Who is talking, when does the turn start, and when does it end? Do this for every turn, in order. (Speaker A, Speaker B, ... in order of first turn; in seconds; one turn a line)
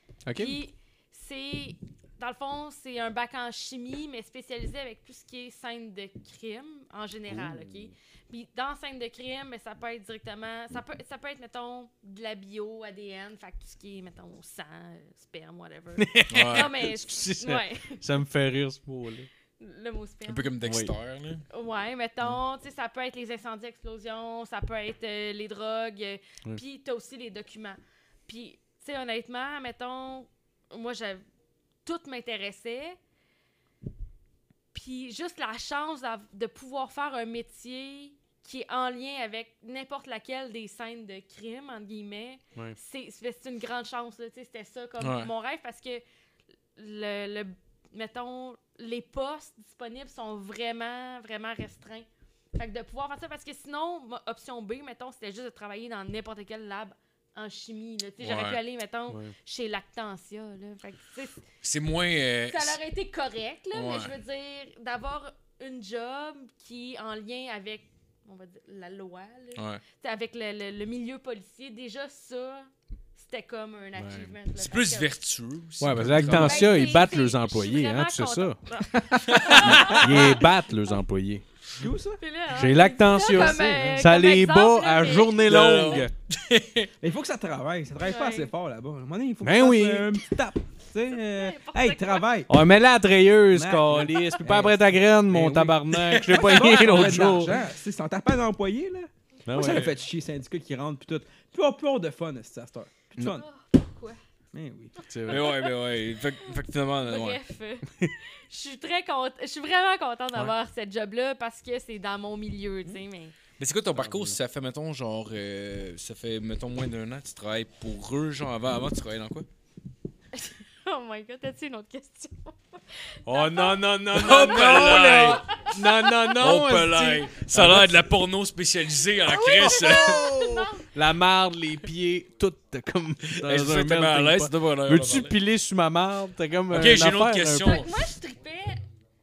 Speaker A: 0.2-0.6
Speaker B: 0.3-18.0
Speaker A: 16.0-19.3
Speaker C: 16.3-16.7
Speaker B: 19.6-20.5
Speaker C: 20.2-21.4
Speaker A: 20.6-20.9
Speaker B: 21.5-31.2
Speaker B: 31.8-33.0
Speaker B: 34.7-46.0
Speaker C: 45.0-45.3
Speaker B: 46.8-61.4
Speaker C: 58.2-58.6
Speaker A: 59.1-59.3
Speaker C: 61.6-62.8
Speaker B: 62.5-75.1
Speaker C: 63.7-64.1
Speaker C: 69.5-69.8
Speaker A: 73.9-74.3
Speaker C: 74.5-76.9
Speaker A: 75.8-78.6
Speaker B: 76.2-80.5
Speaker C: 79.3-80.2
Speaker A: 79.5-81.4
Speaker D: 81.8-82.2
Speaker B: 82.2-85.5
Speaker A: 82.5-86.1
Speaker C: 85.4-86.9
Speaker D: 87.0-92.5
Speaker B: 88.0-88.5
Speaker A: 89.4-90.2
Speaker B: 91.1-92.2
Speaker A: 92.5-97.6
Speaker D: 93.5-94.7
Speaker D: 95.3-95.7
Speaker C: 95.9-97.3
Speaker D: 96.3-103.4
Speaker A: 99.5-99.9
Speaker B: 103.2-104.2
Speaker D: 104.5-104.9
Speaker B: 105.0-113.3
Speaker A: 105.1-105.5
Speaker C: 105.3-107.4
Speaker C: 113.6-119.5
Speaker A: 113.9-114.4
Speaker B: 120.3-122.5
Speaker B: 123.2-126.3
Speaker A: 123.2-128.1
Speaker C: 124.1-125.4
Speaker C: 126.3-130.4
Speaker B: 129.3-130.8
Speaker A: 129.6-137.8
Speaker C: 133.3-135.3
Speaker C: 136.7-138.1
Speaker B: 137.6-138.8